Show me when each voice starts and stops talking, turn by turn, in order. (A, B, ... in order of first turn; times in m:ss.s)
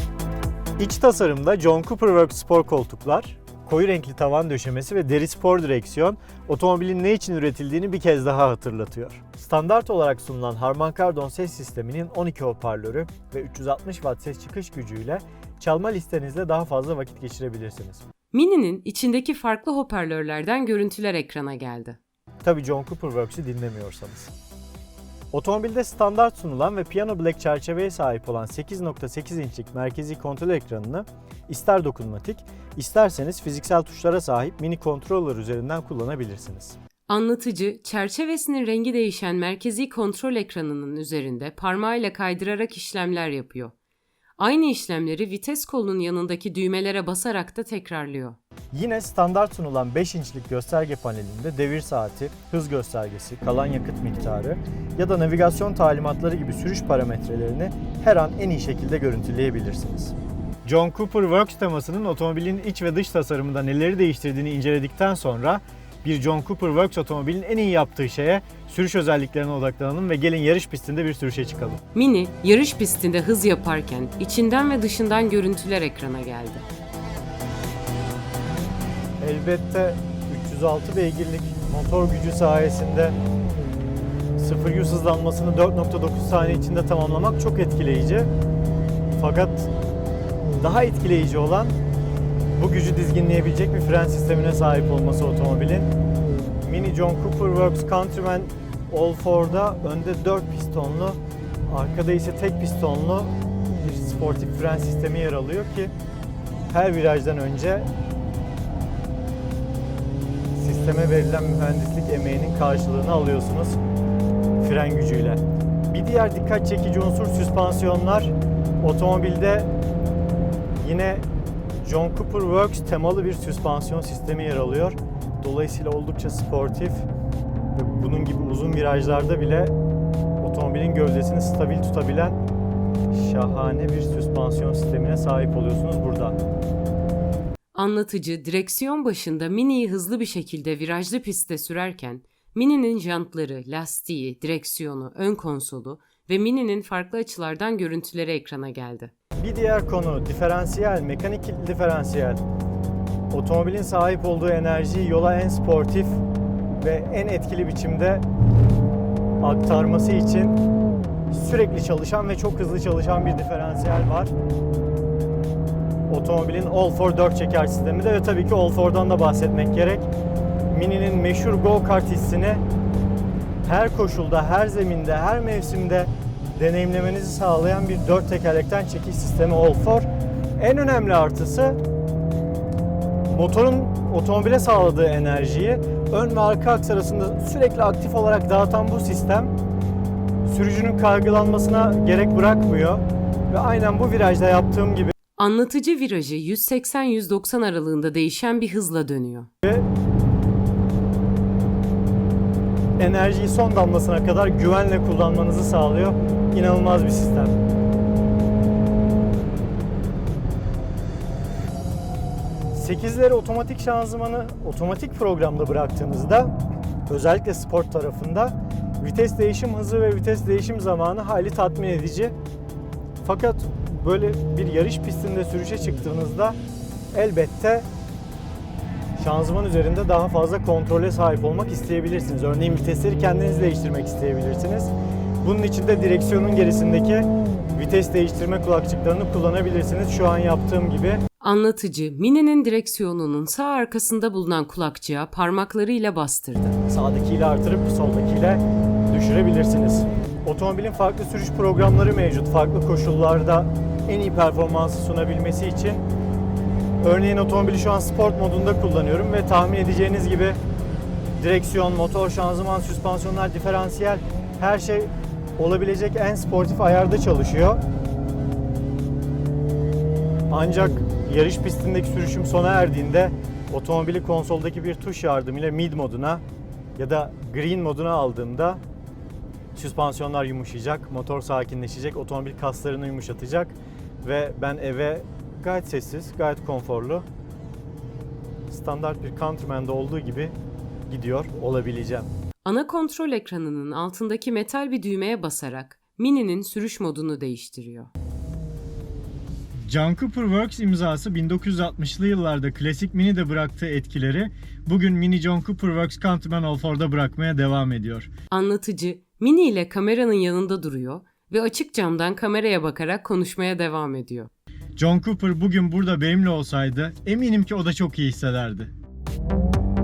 0:00.8-0:18.0 A
0:18.3-0:22.0 B
0:22.4-0:24.3 A
0:25.3-0:36.8 A
0:37.1-0:43.8 B
0:44.4-0:48.4 B
0:48.7-1:11.8 A
1:11.9-1:16.7 B
1:19.2-1:23.2 A
1:24.4-1:28.3 A
1:29.2-1:29.7 A
1:30.6-1:31.8 A
1:32.6-1:35.9 A
1:36.6-1:45.9 A
1:46.7-1:47.9 A
1:50.6-1:53.8 A
1:54.6-1:59.7 A
2:00.8-2:01.3 A
2:01.8-2:07.1 A
2:07.7-2:09.7 A
2:10.4-2:12.4 A
2:13.1-2:16.4 A
2:17.7-2:29.1 B
2:29.4-2:32.4 A
2:33.3-2:36.2 A
2:36.8-2:38.2 A
2:39.4-2:40.6 A
2:41.3-2:44.3 A
2:46.1-2:50.1 A
2:50.7-2:52.6 A
2:53.6-3:00.1 A
3:00.6-3:01.8 A
3:03.3-3:09.5 A
3:10.5-3:15.1 A
3:15.4-3:19.5 B
3:23.0-3:27.6 A
3:32.7-3:36.5 A
3:37.1-3:42.4 A
3:43.2-3:46.6 A
3:47.1-3:47.9 A
3:49.2-4:01.2 A
4:01.4-4:06.8 B
4:06.9-4:16.0 A
4:17.0-4:20.6 A
4:21.4-4:27.8 A
4:30.5-4:36.4 A
4:37.0-4:38.8 A
4:39.8-4:47.3 A
4:48.7-4:50.5 A
4:51.1-4:52.3 A
4:52.6-4:58.1 B
4:59.9-5:08.3 A
5:08.5-5:14.5 B
5:15.0-5:18.9 A